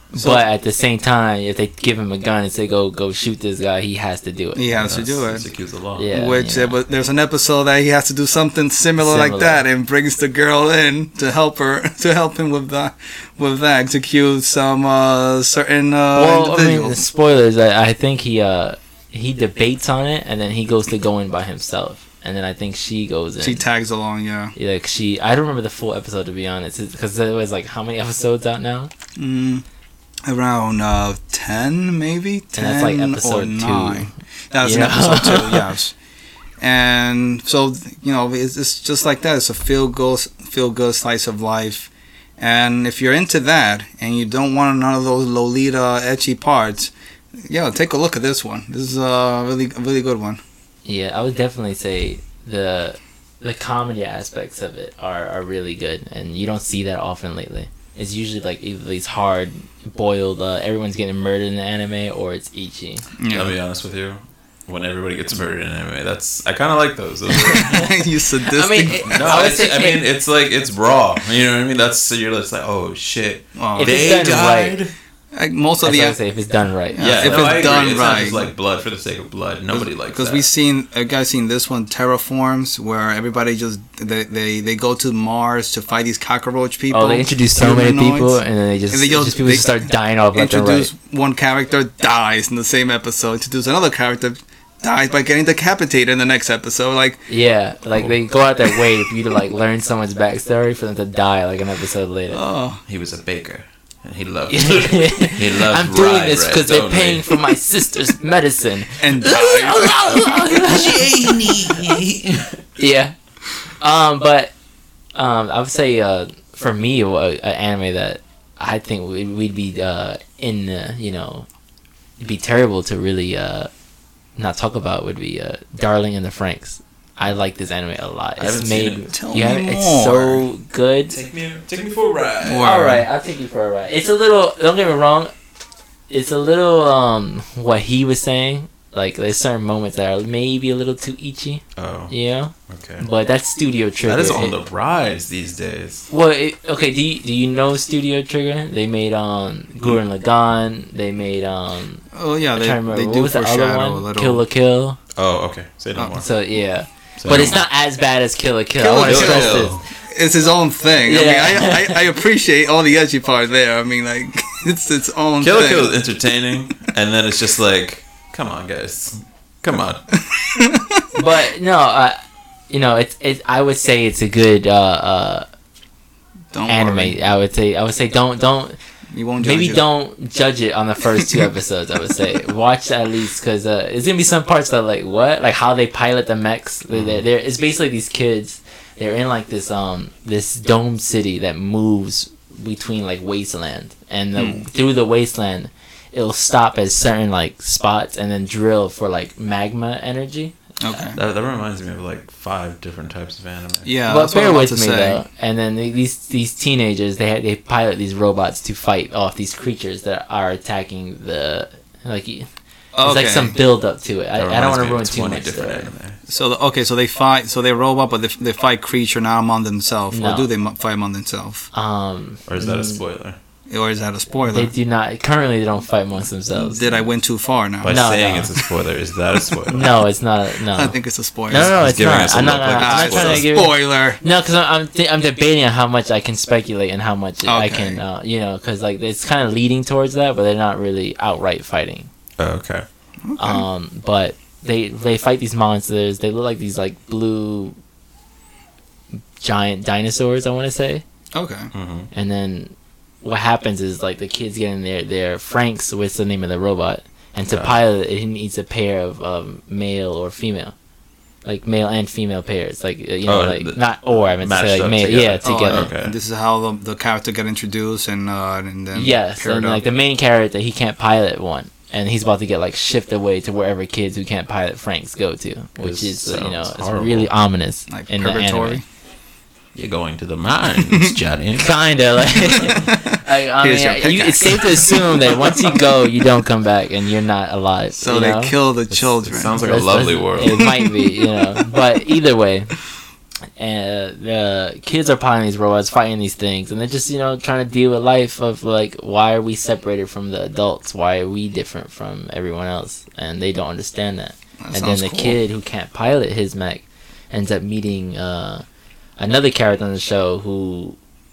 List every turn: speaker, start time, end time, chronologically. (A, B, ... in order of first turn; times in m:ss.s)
0:00.1-0:00.4 A
0:00.1-0:04.7 B
0:04.6-0:05.5 A
0:04.8-0:06.1 C
0:06.0-0:06.8 B
0:06.1-0:17.0 A
0:09.0-0:09.6 B
0:16.1-0:23.6 B
0:23.4-0:24.5 A
0:24.6-0:28.9 B
0:29.2-0:29.6 A
0:30.2-0:35.9 A
0:32.5-0:34.1 B
0:34.6-0:35.7 B
0:36.6-0:50.4 A
0:50.8-1:03.0 B
1:03.2-1:03.5 A
1:03.3-1:07.8 C
1:07.4-1:07.9 B
1:07.4-1:09.4 A
1:08.4-1:10.0 B
1:09.1-1:14.9 C
1:13.6-1:14.1 A
1:13.8-1:14.8 B
1:15.3-1:16.2 A
1:15.8-1:18.2 B
1:16.9-1:18.5 A
1:17.0-1:20.4 C
1:19.7-1:28.4 A
1:26.9-1:30.9 B
1:28.9-1:37.2 A
1:37.3-1:42.4 B
1:42.3-1:42.8 A
1:42.9-1:47.4 C
1:44.5-1:51.9 B
1:49.0-1:50.0 A
1:50.5-1:52.6 C
1:52.8-1:53.1 B
1:53.8-1:54.5 B
1:55.1-2:01.5 B
2:02.2-2:03.7 B
2:04.4-2:11.1 B
2:08.4-2:09.1 C
2:09.1-2:10.4 A
2:11.1-2:12.7 C
2:12.4-2:13.0 A
2:12.6-2:15.3 B
2:16.1-2:24.5 B
2:21.8-2:22.1 C
2:22.7-2:23.0 C
2:24.0-2:26.1 C
2:26.1-2:35.0 B
2:32.1-2:34.4 A
2:35.2-2:36.2 C
2:36.0-2:36.2 A
2:36.2-2:39.8 B
2:37.2-2:37.6 C
2:38.8-2:45.9 A
2:39.0-2:39.8 C
2:41.0-2:42.0 B
2:45.4-2:50.0 C
2:50.3-2:51.0 A
2:51.1-2:52.2 B
2:52.7-2:55.4 B
2:56.5-2:57.2 A
2:56.7-2:58.8 B
2:59.1-2:59.8 A
2:59.4-3:21.1 B
3:06.9-3:07.2 C
3:14.4-3:14.6 A
3:20.8-3:21.2 A
3:21.1-3:23.9 C
3:23.8-3:25.2 A
3:24.1-3:32.5 B
3:33.0-3:33.6 A
3:33.0-3:35.9 B
3:34.4-3:36.2 C
3:36.3-3:41.7 A
3:40.1-3:40.5 B
3:41.7-3:43.0 B
3:42.5-3:43.4 C
3:43.7-3:44.7 A
3:44.5-3:47.0 B
3:46.5-3:48.0 A
3:47.8-3:49.9 C
3:47.9-3:48.5 B
3:49.7-3:51.0 B
3:50.7-3:51.8 A
3:51.5-4:02.1 B
3:51.5-3:53.5 C
3:52.8-3:54.2 A
3:57.4-3:58.0 A
4:02.4-4:02.8 C
4:03.2-4:03.6 A
4:03.4-4:07.8 B
4:09.4-4:11.0 B
4:11.3-4:11.7 A
4:11.7-4:12.1 C
4:12.1-4:20.7 B
4:17.5-4:17.8 C
4:21.4-4:25.9 B
4:23.3-4:26.1 C
4:25.4-4:29.8 A
4:28.9-4:38.8 B
4:35.8-4:37.3 C
4:37.9-4:38.8 A
4:39.7-4:41.7 C
4:40.7-4:41.1 A
4:41.6-4:48.6 B
4:42.4-4:46.0 A
4:48.0-4:49.6 A
4:48.9-4:50.7 C
4:49.6-4:52.7 B
4:50.6-4:51.2 A
4:53.6-5:08.6 B
5:04.6-5:05.4 A
5:09.2-5:11.0 B